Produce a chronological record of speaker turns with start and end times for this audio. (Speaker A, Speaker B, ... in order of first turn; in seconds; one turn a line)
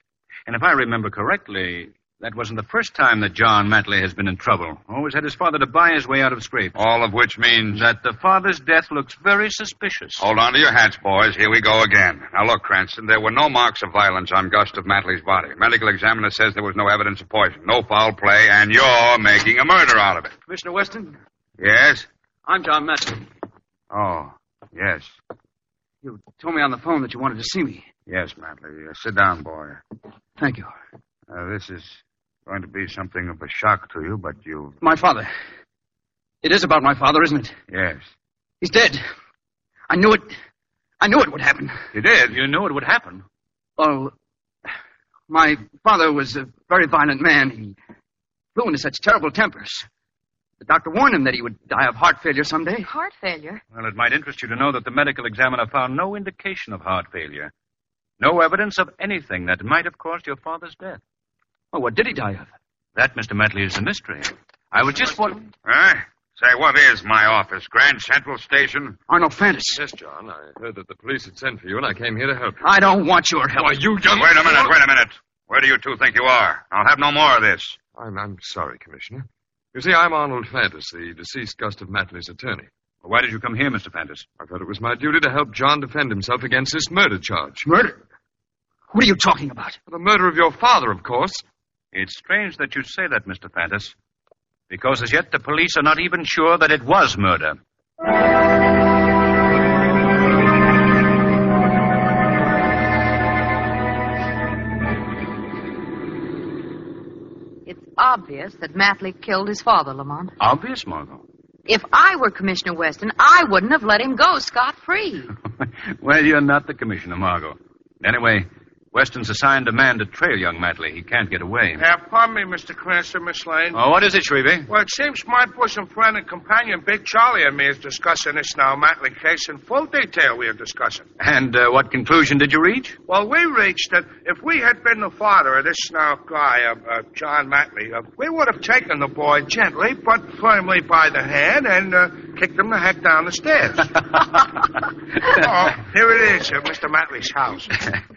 Speaker A: 0.5-6.8
Speaker B: 6.8-7.8
Speaker A: 7.7-10.3
Speaker B: 10.2-20.3
Speaker C: 20.5-21.2
Speaker B: 21.6-22.1
Speaker C: 22.5-23.2
Speaker B: 23.9-25.1
Speaker C: 26.0-27.9
Speaker B: 28.1-29.8
Speaker C: 30.4-30.7
Speaker B: 31.3-34.8
Speaker C: 34.8-35.3
Speaker C: 36.4-37.6
Speaker B: 37.7-38.0
Speaker C: 38.6-39.0
Speaker C: 39.9-40.3
Speaker C: 41.0-41.8
Speaker B: 41.9-42.4
Speaker A: 42.3-43.2
Speaker C: 43.8-44.1
Speaker C: 45.3-47.8
Speaker C: 48.5-49.9
Speaker C: 50.6-52.9
Speaker D: 52.8-53.6
Speaker A: 53.7-57.5
Speaker A: 58.2-61.0
Speaker C: 61.7-62.5
Speaker A: 63.0-65.5
Speaker B: 65.7-69.0
Speaker C: 69.1-69.8
Speaker E: 69.7-72.7
Speaker C: 72.6-73.8
Speaker E: 73.6-74.7
Speaker B: 74.1-77.8
Speaker E: 78.0-82.7
Speaker A: 83.0-84.3
Speaker E: 84.4-87.7
Speaker C: 87.7-88.0
Speaker C: 88.9-89.8
Speaker E: 89.9-91.5
Speaker A: 91.9-93.9
Speaker A: 94.7-97.6
Speaker D: 107.7-110.3
Speaker A: 110.4-111.2
Speaker D: 111.7-115.3
Speaker A: 115.6-121.8
Speaker F: 121.8-123.8
Speaker A: 123.7-124.7
Speaker F: 124.7-131.1
Speaker A: 131.2-133.0
Speaker F: 133.1-143.9
Speaker F: 145.3-147.7